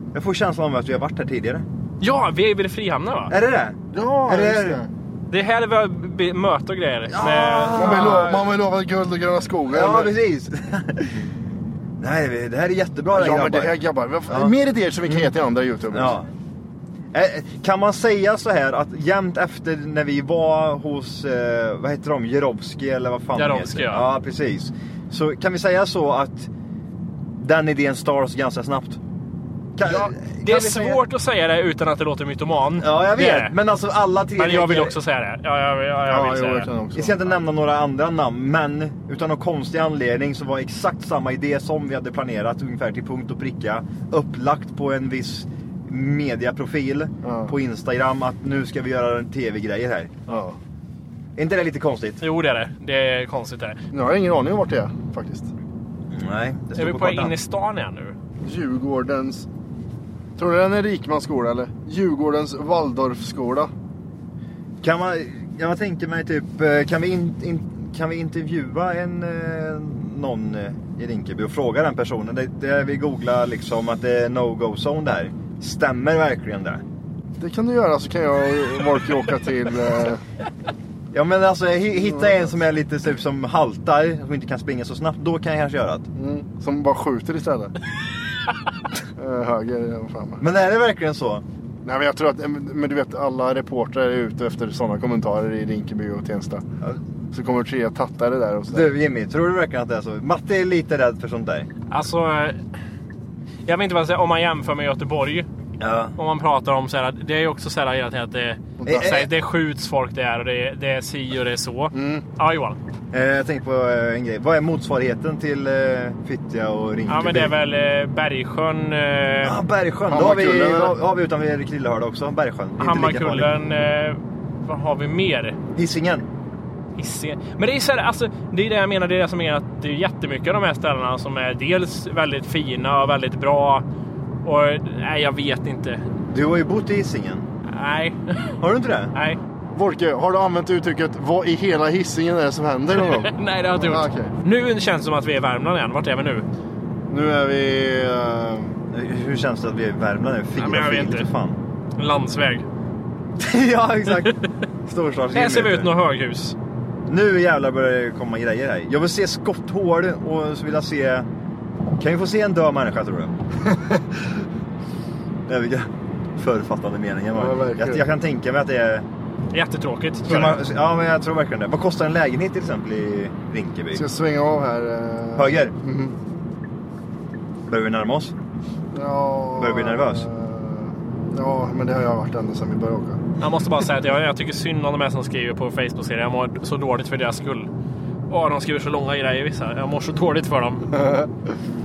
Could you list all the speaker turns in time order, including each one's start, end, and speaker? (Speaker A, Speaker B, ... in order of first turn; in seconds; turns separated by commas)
Speaker A: 0.1-1.6, Speaker B: 2.0-3.3, Speaker A: 3.3-4.9, Speaker C: 3.9-4.9, Speaker B: 5.3-8.4, Speaker A: 7.1-8.4, Speaker C: 7.7-10.1, Speaker A: 9.7-11.2, Speaker A: 12.0-13.8, Speaker C: 13.1-16.2, Speaker A: 14.3-14.5, Speaker A: 15.9-16.3, Speaker A: 17.1-26.5, Speaker B: 23.4-24.1, Speaker A: 27.4-29.0, Speaker A: 29.8-31.0, Speaker B: 29.8-33.5, Speaker A: 32.8-34.9, Speaker B: 34.4-36.7, Speaker C: 36.0-37.4, Speaker A: 36.9-50.1, Speaker C: 47.2-47.5, Speaker C: 50.3-50.6, Speaker A: 51.4-52.2, Speaker B: 52.2-53.8, Speaker C: 53.9-55.5, Speaker A: 56.1-57.3, Speaker B: 56.8-58.1, Speaker C: 58.4-59.5, Speaker C: 60.4-63.7, Speaker A: 64.8-76.8, Speaker C: 77.4-80.2, Speaker A: 81.1-86.1, Speaker C: 82.0-82.5, Speaker C: 86.2-87.7, Speaker C: 89.2-90.4, Speaker A: 90.4-91.4, Speaker C: 91.8-96.6, Speaker C: 97.3-98.9, Speaker A: 98.7-101.7, Speaker B: 101.9-102.6, Speaker B: 103.7-105.5, Speaker A: 105.8-106.1, Speaker B: 106.2-112.8, Speaker C: 108.8-109.2, Speaker A: 108.8-109.3, Speaker C: 111.9-112.2, Speaker A: 113.1-117.5, Speaker B: 117.1-119.6, Speaker A: 119.4-123.5, Speaker C: 120.1-121.0, Speaker B: 122.8-125.6, Speaker A: 125.7-126.3, Speaker B: 127.0-133.8, Speaker B: 134.4-136.0, Speaker A: 136.3-137.5, Speaker B: 137.7-138.6, Speaker A: 138.6-139.1, Speaker B: 139.1-139.4, Speaker C: 139.7-144.3, Speaker B: 143.0-146.4, Speaker C: 147.1-148.8, Speaker A: 148.9-151.6, Speaker B: 150.6-151.3, Speaker B: 152.0-152.6, Speaker A: 153.4-155.9, Speaker B: 155.3-156.6, Speaker A: 157.1-161.3, Speaker A: 162.0-163.3, Speaker C: 163.7-164.4, Speaker A: 165.5-169.0, Speaker C: 167.3-168.1, Speaker B: 169.5-170.6, Speaker A: 170.3-174.0, Speaker C: 173.9-176.2, Speaker A: 175.4-175.7, Speaker A: 177.7-178.3, Speaker C: 178.9-183.2, Speaker A: 179.6-180.2, Speaker B: 183.4-187.7, Speaker B: 188.3-190.9, Speaker C: 191.0-191.3